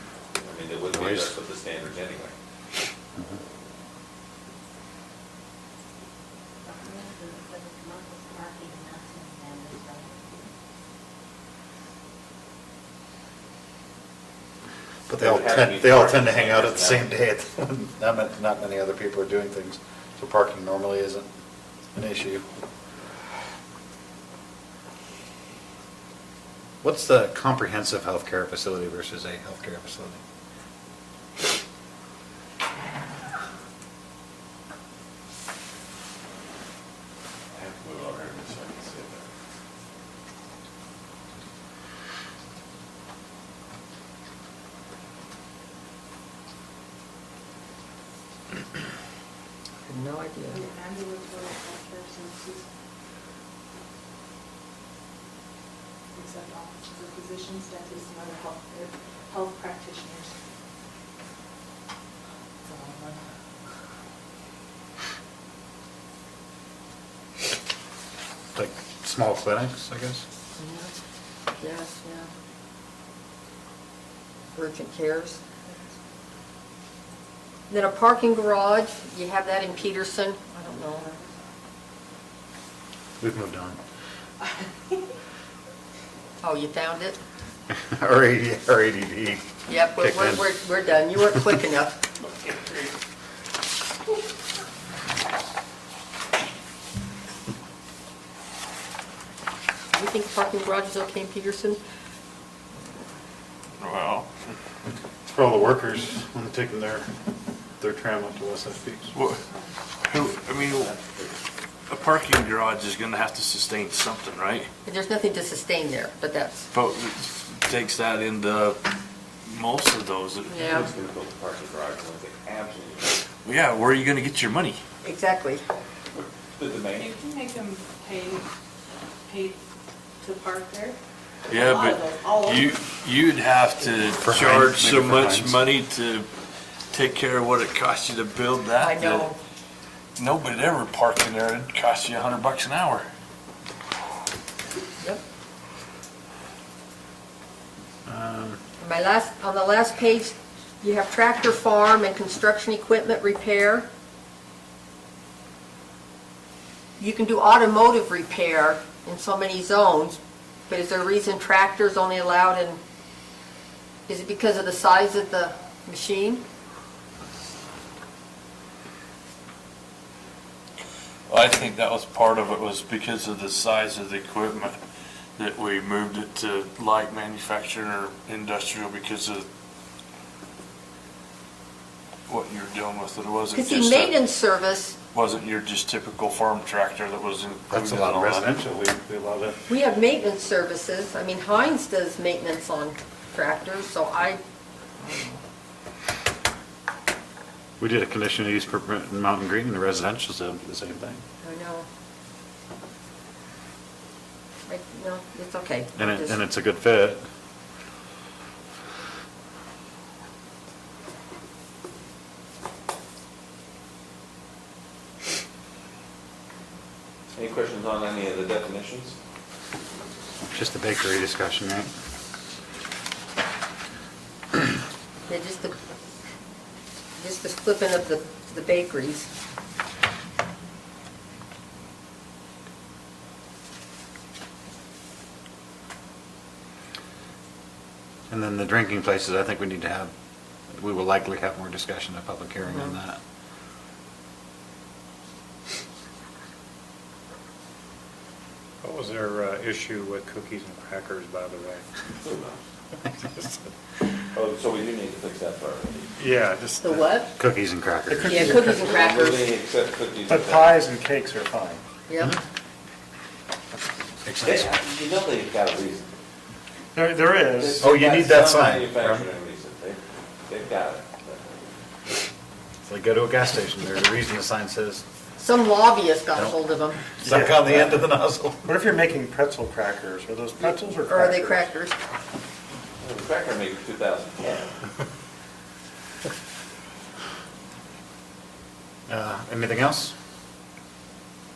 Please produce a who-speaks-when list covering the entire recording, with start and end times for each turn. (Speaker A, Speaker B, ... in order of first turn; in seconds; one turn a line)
Speaker A: 0.4-2.3
Speaker B: 0.9-1.4
Speaker C: 6.7-10.2
Speaker B: 15.1-21.3
Speaker A: 15.2-17.1
Speaker B: 21.9-22.4
Speaker B: 26.8-30.2
Speaker A: 37.5-39.2
Speaker D: 49.8-50.6
Speaker C: 50.5-52.6
Speaker C: 56.1-60.3
Speaker C: 62.7-63.2
Speaker B: 68.5-70.2
Speaker D: 70.6-70.9
Speaker D: 71.6-72.3
Speaker D: 74.5-75.4
Speaker D: 77.7-81.2
Speaker B: 83.2-83.8
Speaker D: 86.4-87.2
Speaker B: 87.9-90.5
Speaker D: 89.7-92.0
Speaker D: 99.9-101.8
Speaker E: 103.8-104.3
Speaker B: 105.3-107.1
Speaker B: 107.8-109.1
Speaker E: 109.1-109.4
Speaker E: 110.0-110.9
Speaker A: 110.6-111.3
Speaker E: 111.9-114.7
Speaker D: 114.8-116.7
Speaker E: 116.7-118.8
Speaker E: 119.4-120.7
Speaker D: 120.5-120.8
Speaker A: 120.6-123.2
Speaker E: 123.4-124.8
Speaker D: 125.0-125.6
Speaker A: 126.1-127.1
Speaker C: 126.9-128.4
Speaker C: 129.3-129.6
Speaker C: 130.2-131.0
Speaker E: 131.5-136.3
Speaker C: 131.5-132.8
Speaker B: 134.2-135.6
Speaker E: 136.9-139.3
Speaker D: 138.8-139.4
Speaker E: 140.2-143.1
Speaker B: 148.1-148.6
Speaker D: 148.8-153.9
Speaker D: 157.0-160.2
Speaker D: 160.7-162.8
Speaker D: 164.1-166.4
Speaker E: 171.3-174.8
Speaker E: 175.4-179.4
Speaker E: 182.3-184.2
Speaker D: 183.5-184.9
Speaker E: 185.1-188.5
Speaker B: 187.7-189.6
Speaker D: 189.7-194.4
Speaker D: 195.0-195.4
Speaker B: 197.8-201.2
Speaker D: 201.4-201.9
Speaker D: 204.7-206.4
Speaker B: 205.9-207.2
Speaker A: 217.3-219.2
Speaker B: 220.5-221.9
Speaker D: 225.3-225.8
Speaker D: 227.2-229.3
Speaker B: 238.3-240.1
Speaker B: 240.7-243.2
Speaker D: 242.7-242.9
Speaker F: 248.8-251.8
Speaker A: 252.2-252.6
Speaker A: 254.3-256.1
Speaker F: 256.2-257.1
Speaker D: 256.8-257.3
Speaker B: 257.4-258.6
Speaker F: 258.1-259.1
Speaker D: 258.2-259.5
Speaker A: 258.7-260.8
Speaker F: 260.3-261.8
Speaker D: 262.1-262.3
Speaker B: 264.2-264.7
Speaker A: 264.4-266.1
Speaker F: 266.9-268.1
Speaker A: 267.5-271.5
Speaker B: 267.8-269.2
Speaker B: 272.8-275.0
Speaker D: 275.4-277.1
Speaker B: 277.2-278.6
Speaker F: 277.2-277.9
Speaker F: 278.6-281.7
Speaker D: 280.6-281.9
Speaker A: 283.0-284.8
Speaker B: 289.1-290.1